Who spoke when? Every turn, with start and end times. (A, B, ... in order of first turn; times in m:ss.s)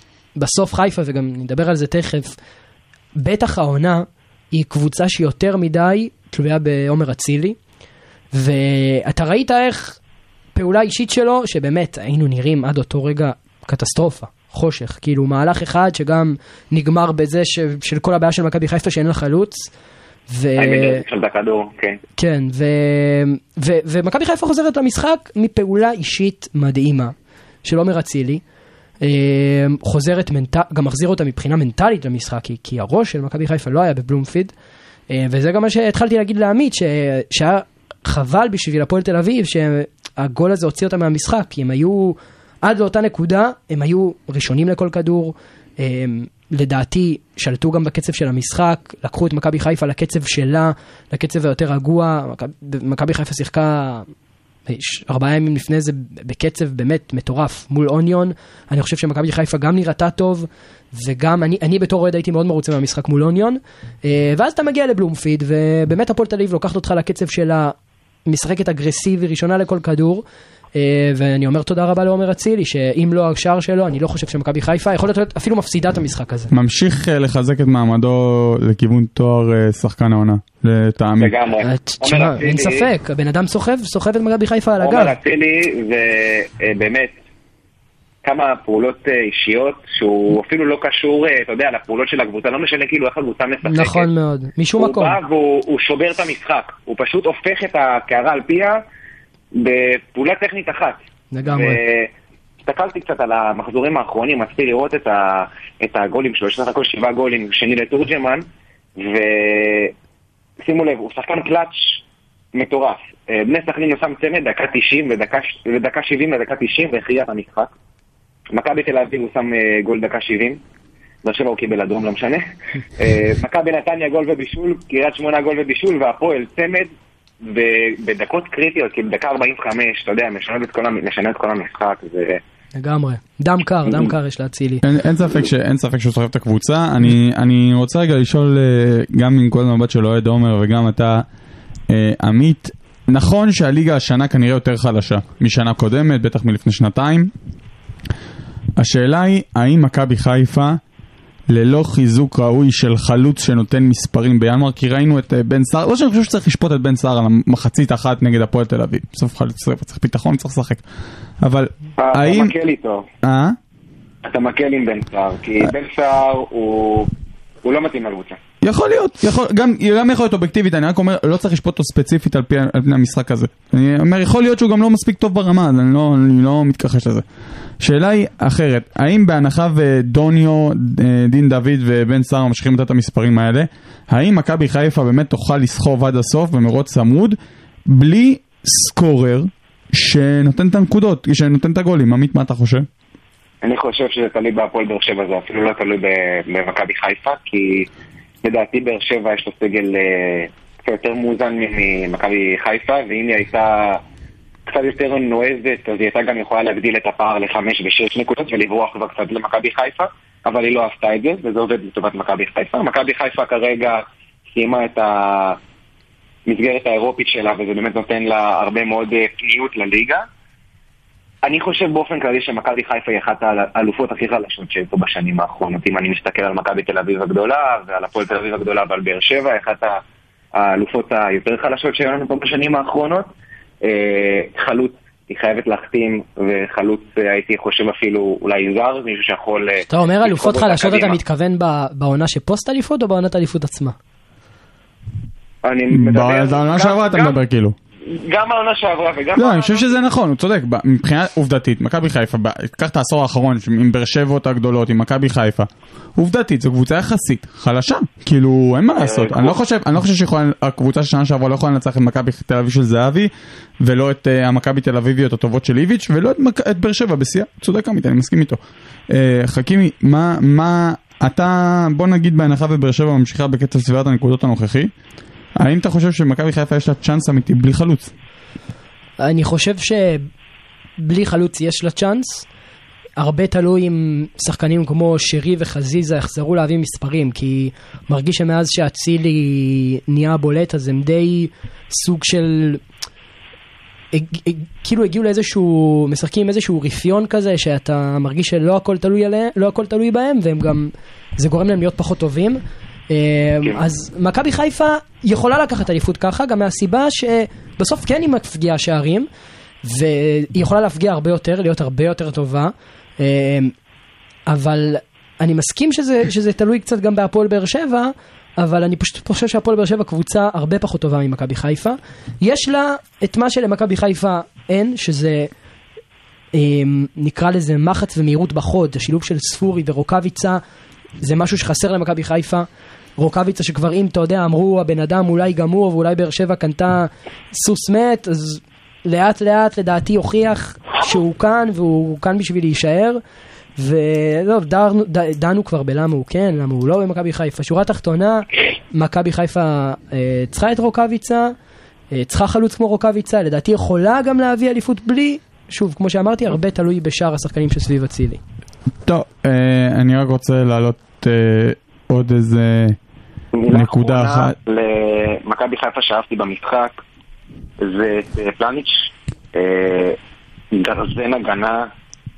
0:00.4-0:02.3 A
0:03.2-0:07.6 A
0:08.3-0:10.0 A
0:10.6-0:19.7 A
0:20.3-0:21.0 A
0:20.6-0:22.0 B
0:22.2-0:27.1 A
0:27.6-0:28.4 A
0:29.0-0:34.5 A
0:35.1-0:54.1 A
0:54.7-1:07.8 A
1:08.3-1:10.2 A
1:10.8-1:16.5 A
1:16.5-1:21.3 C
1:21.2-1:22.9 B
1:21.6-1:25.2 A
1:24.8-1:27.2 B
1:28.2-1:34.1 B
1:33.7-1:35.2 A
1:34.8-1:38.8 B
1:39.6-1:42.1 B
1:41.3-1:41.8 A
1:42.6-1:48.4 B
1:49.0-1:49.9 B
1:50.6-1:52.0 B
1:52.5-1:57.7 B
1:58.5-2:00.6 B
2:01.2-2:06.9 B
2:07.4-2:12.4 B
2:12.8-2:14.8 A
2:14.8-2:21.2 C
2:21.9-2:27.3 C
2:28.8-2:30.8 C
2:31.5-2:40.8 C
2:41.4-2:42.5 C
2:42.0-2:43.1 B
2:43.2-2:43.6 C
2:44.2-2:47.1 B
2:47.6-2:48.4 B
2:48.6-2:57.2 C
2:57.8-3:12.9 C
3:13.6-3:17.9 B
3:18.4-3:24.0 B
3:24.7-3:34.0 B
3:34.5-3:35.6 B
3:36.5-3:40.2 B
3:41.4-3:50.0 B
3:50.6-3:53.3 B
3:53.8-4:01.2 B
3:59.9-4:04.0 A
4:05.6-4:07.4 B
4:05.9-4:07.8 C
4:08.1-4:10.0 B
4:09.4-4:23.3 C
4:18.9-4:19.6 B
4:23.8-4:28.6 C
4:29.1-4:34.9 C
4:35.6-4:38.1 C
4:39.2-4:40.3 A
4:41.0-4:42.5 A
4:43.2-4:52.8 A
4:54.1-5:09.3 A
5:09.8-5:13.7 A
5:14.5-5:25.5 A
5:26.5-5:30.6 A
5:31.2-5:32.7 A
5:33.2-5:43.2 A
5:43.8-5:51.5 A
5:52.1-5:58.4 A
5:59.1-6:03.0 C
6:03.5-6:07.0 B
6:03.7-6:04.6 C
6:07.8-6:10.2 B
6:10.7-6:11.9 B